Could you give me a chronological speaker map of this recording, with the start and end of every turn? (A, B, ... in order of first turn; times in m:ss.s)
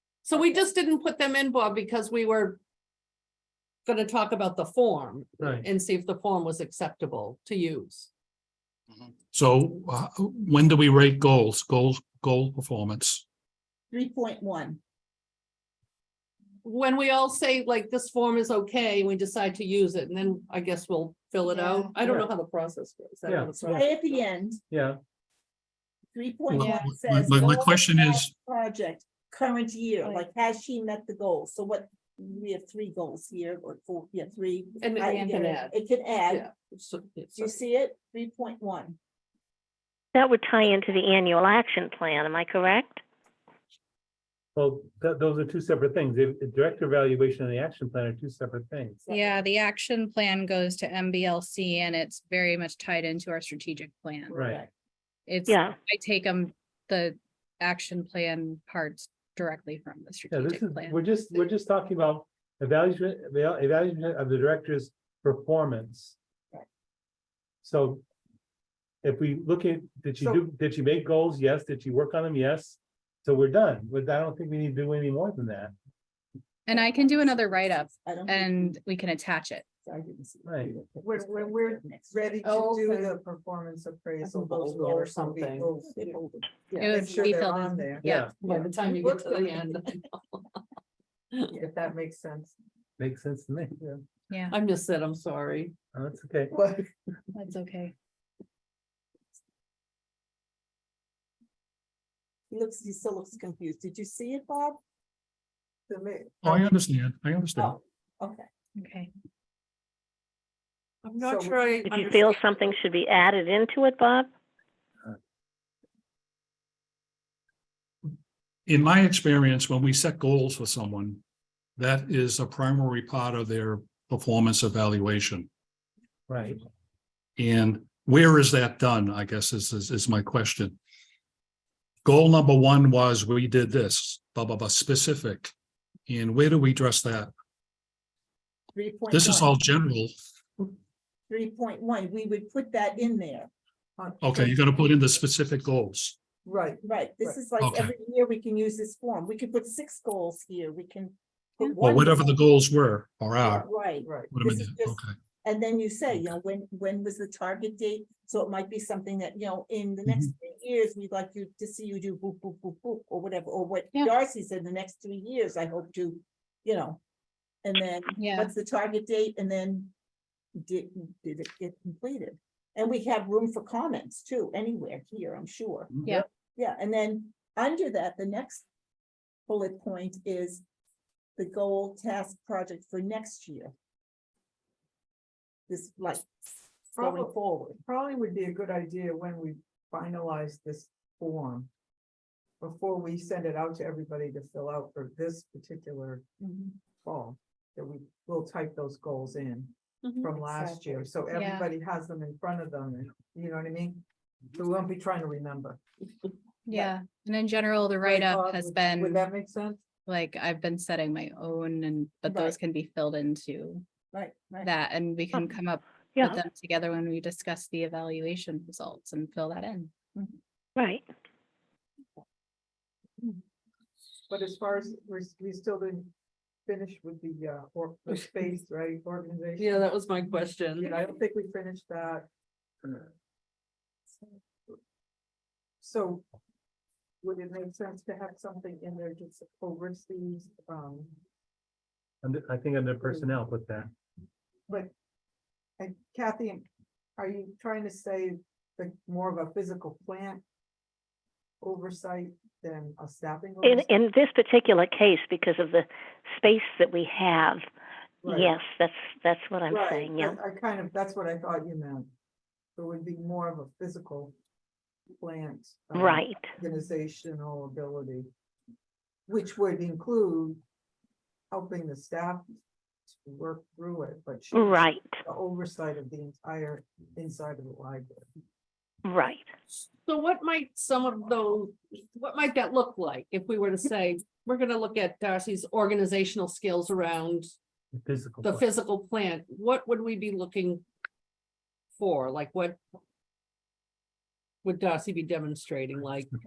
0:00.2-0:02.6 A
0:03.9-0:08.1 A
0:05.4-0:05.7 B
0:09.0-0:13.2 C
0:13.9-0:14.8 D
0:16.6-0:24.2 A
0:21.5-0:21.9 E
0:22.0-0:22.3 B
0:23.2-0:23.8 B
0:23.6-0:24.6 D
0:24.7-0:25.0 B
0:26.1-0:36.5 D
0:26.5-0:28.3 C
0:26.6-0:26.9 E
0:34.8-0:37.6 A
0:37.4-0:39.0 D
0:40.2-0:43.0 F
0:44.6-0:49.0 B
0:49.1-0:49.4 D
0:49.1-0:54.4 E
0:54.3-0:54.6 B
0:55.3-1:01.0 E
0:55.5-0:55.8 F
1:00.3-1:06.2 B
1:07.6-1:08.0 B
1:09.0-1:15.7 B
1:10.2-1:10.4 G
1:16.7-1:19.7 E
1:16.7-1:18.8 D
1:19.8-1:22.4 D
1:20.4-1:20.7 B
1:21.0-1:29.7 G
1:22.4-1:23.1 A
1:24.2-1:25.8 A
1:26.0-1:27.4 D
1:26.8-1:28.3 E
1:28.0-1:28.4 B
1:28.4-1:30.5 A
1:31.5-1:32.6 G
1:33.0-1:33.8 B
1:34.3-1:34.6 E
1:34.5-1:35.7 A
1:35.9-1:36.6 B
1:37.4-1:38.0 E
1:42.5-1:44.8 D
1:45.9-1:46.6 G
1:46.4-1:47.8 C
1:47.6-1:48.5 D
1:48.8-1:49.1 E
1:51.0-1:52.8 A
1:51.2-1:51.6 G
1:51.9-1:54.3 F
1:58.7-2:01.2 C
2:01.8-2:05.5 C
2:06.3-2:06.6 B
2:07.4-2:10.8 C
2:12.0-2:15.5 C
2:16.1-2:17.3 C
2:18.7-2:19.6 D
2:19.1-2:20.1 C
2:21.3-2:23.5 D
2:24.0-2:24.6 G
2:24.2-2:26.2 C
2:26.4-2:27.4 G
2:26.8-2:32.4 D
2:27.6-2:27.9 C
2:31.8-2:33.7 C
2:33.4-2:47.0 D
2:34.0-2:34.3 G
2:34.3-2:35.1 C
2:47.6-2:49.9 D
2:48.2-2:48.5 E
2:50.6-2:58.7 D
2:59.5-3:00.6 D
3:01.4-3:03.7 D
3:05.7-3:06.3 D
3:06.9-3:07.8 D
3:07.0-3:11.7 G
3:12.6-3:16.2 G
3:16.4-3:16.7 E
3:17.0-3:25.8 G
3:20.0-3:21.0 A
3:21.3-3:21.7 E
3:26.7-3:29.2 E
3:28.0-3:29.8 G
3:30.1-3:33.8 E
3:32.3-3:32.6 D
3:34.1-3:34.7 D
3:34.6-3:39.9 E
3:36.2-3:36.4 F
3:40.8-3:41.0 F
3:44.3-3:46.1 G
3:46.7-3:49.8 G
3:49.6-3:51.1 A
3:50.8-3:52.3 G
3:52.8-3:53.1 G
3:55.8-3:56.2 G
3:57.2-4:01.2 G
4:02.2-4:03.9 B
4:05.8-4:10.4 G
4:11.6-4:13.9 G
4:13.6-4:17.7 F
4:18.2-4:18.6 G
4:18.3-4:20.4 F
4:19.7-4:22.1 G
4:22.8-4:24.3 G
4:25.2-4:28.3 G
4:25.9-4:26.5 F
4:29.3-4:30.6 G
4:31.5-4:32.4 G
4:33.1-4:38.3 G
4:34.5-4:35.1 F
4:39.1-4:39.5 F
4:40.0-4:47.5 A
4:48.0-4:48.6 B
4:48.4-4:50.8 A
4:52.0-4:52.8 A
4:54.6-4:56.3 A